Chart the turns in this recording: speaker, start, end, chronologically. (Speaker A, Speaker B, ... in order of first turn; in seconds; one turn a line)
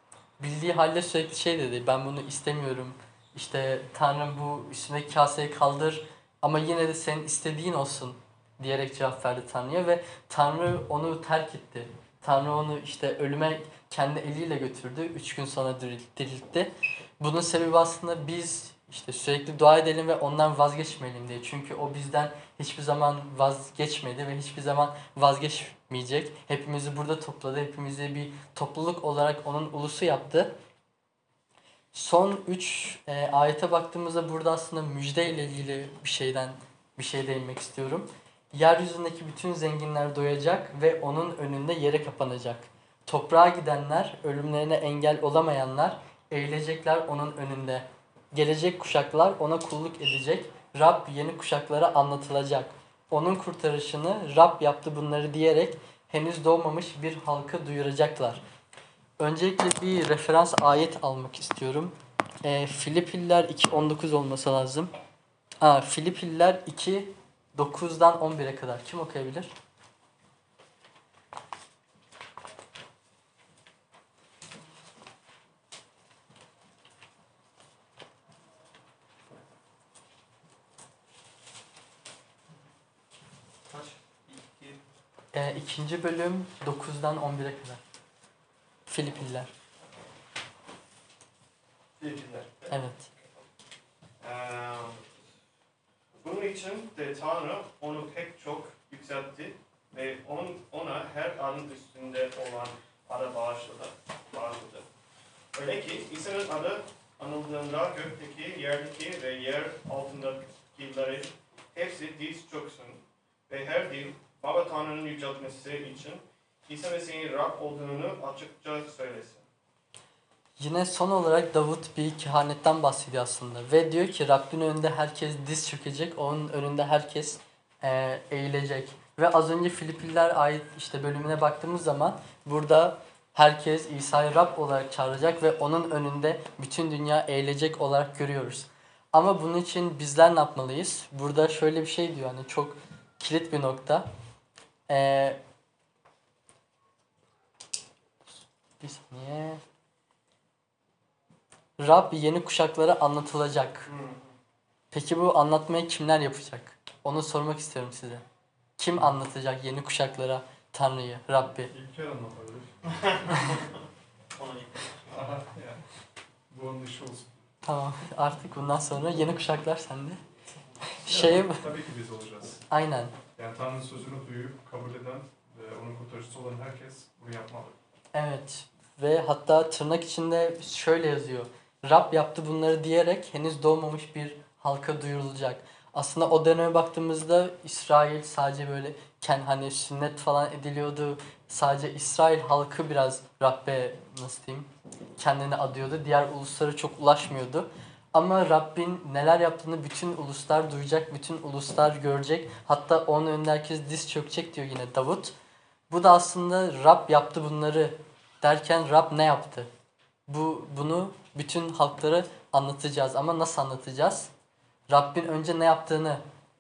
Speaker A: 0.4-30.5
Speaker A: 31.9-58.4
Speaker A: 59.2-64.9
Speaker A: 65.6-69.5
Speaker B: 83.7-84.8
Speaker A: 85.3-87.8
Speaker A: 88.9-89.5
Speaker B: 92.0-92.8
Speaker A: 92.7-93.1
Speaker B: 94.2-95.2
Speaker B: 96.2-104.9
Speaker B: 105.5-119.5
Speaker A: 120.6-144.1
Speaker A: 144.9-145.4
Speaker A: 148.8-149.6
Speaker A: 151.8-153.9
Speaker B: 153.9-154.3
Speaker A: 154.9-158.2
Speaker A: 158.8-161.7
Speaker C: 161.7-162.8
Speaker B: 163.0-163.7
Speaker B: 164.4-165.1
Speaker C: 165.1-165.8
Speaker C: 166.5-167.4
Speaker A: 167.7-170.2
Speaker A: 170.9-171.7
Speaker C: 171.1-172.7
Speaker A: 172.7-173.1
Speaker C: 173.3-177.8
Speaker A: 178.1-205.3
Speaker A: 205.9-209.7
Speaker A: 210.3-214.3
Speaker A: 214.9-216.2